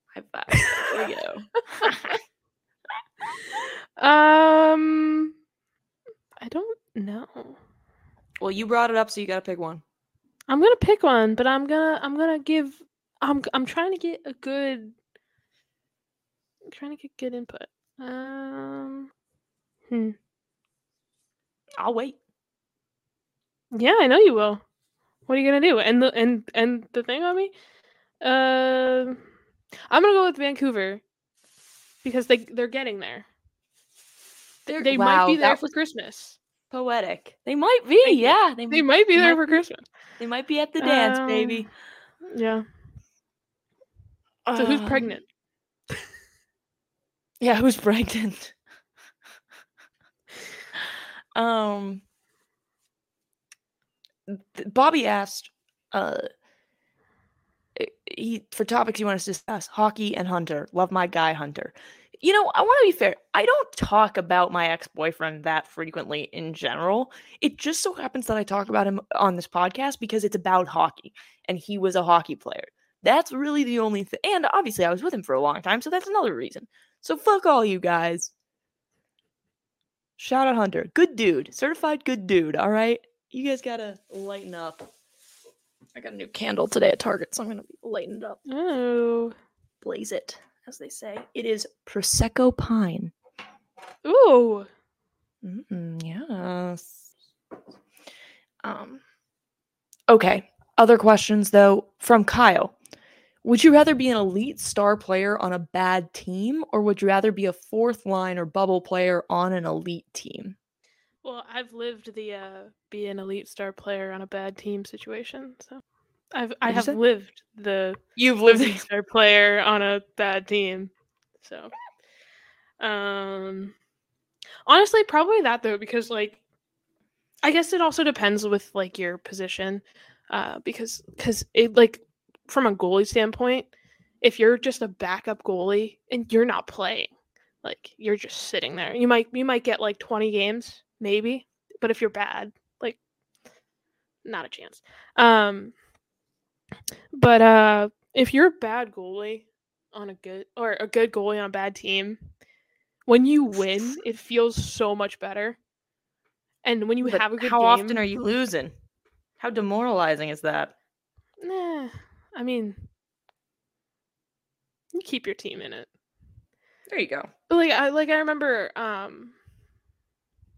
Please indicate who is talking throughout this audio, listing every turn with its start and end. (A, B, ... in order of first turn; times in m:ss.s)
0:00.1-0:02.2 A
0:00.5-0:01.0 B
0:01.8-0:02.1 B
0:03.6-0:05.3 B
0:06.4-0:07.6 B
0:08.4-0:09.8 A
0:10.5-0:15.0 B
0:16.7-0:19.1 B
0:19.9-0:20.2 B
0:21.8-0:22.2 A
0:23.7-0:24.6 B
0:25.3-0:27.5 B
0:28.2-0:29.2 B
0:29.9-0:31.0 B
0:32.0-0:33.3 B
0:34.6-0:35.7 A
0:34.8-0:36.4 B
0:36.7-0:39.6 A
0:38.0-0:39.8 B
0:40.2-0:41.7 A
0:40.8-0:41.7 B
0:42.3-0:42.6 B
0:44.4-0:45.1 A
0:44.6-0:45.2 B
0:47.4-0:48.5 A
0:51.3-0:52.0 A
0:54.3-0:56.2 A
0:57.8-1:18.3 A
1:20.2-1:24.9 A
1:25.9-1:28.4 A
1:28.5-1:29.3 B
1:29.8-1:33.1 A
1:34.0-1:34.7 B
1:35.4-1:37.0 A
1:38.6-1:39.0 A
1:40.1-1:42.7 A
1:43.4-1:50.6 A
1:51.2-1:55.8 B
1:56.3-2:01.7 B
1:56.7-1:57.0 A
1:58.2-1:58.8 A
2:02.8-2:03.7 B
2:04.7-2:06.4 B
2:07.4-2:13.7 B
2:14.2-2:17.1 B
2:17.6-2:23.0 B
2:24.2-2:25.7 B
2:27.1-2:32.2 B
2:33.1-2:35.6 B
2:36.6-2:38.0 B
2:37.0-2:38.7 A
2:39.4-2:40.7 A
2:41.4-2:42.9 B
2:44.9-2:45.9 B
2:46.9-2:47.3 A
2:47.5-2:49.3 B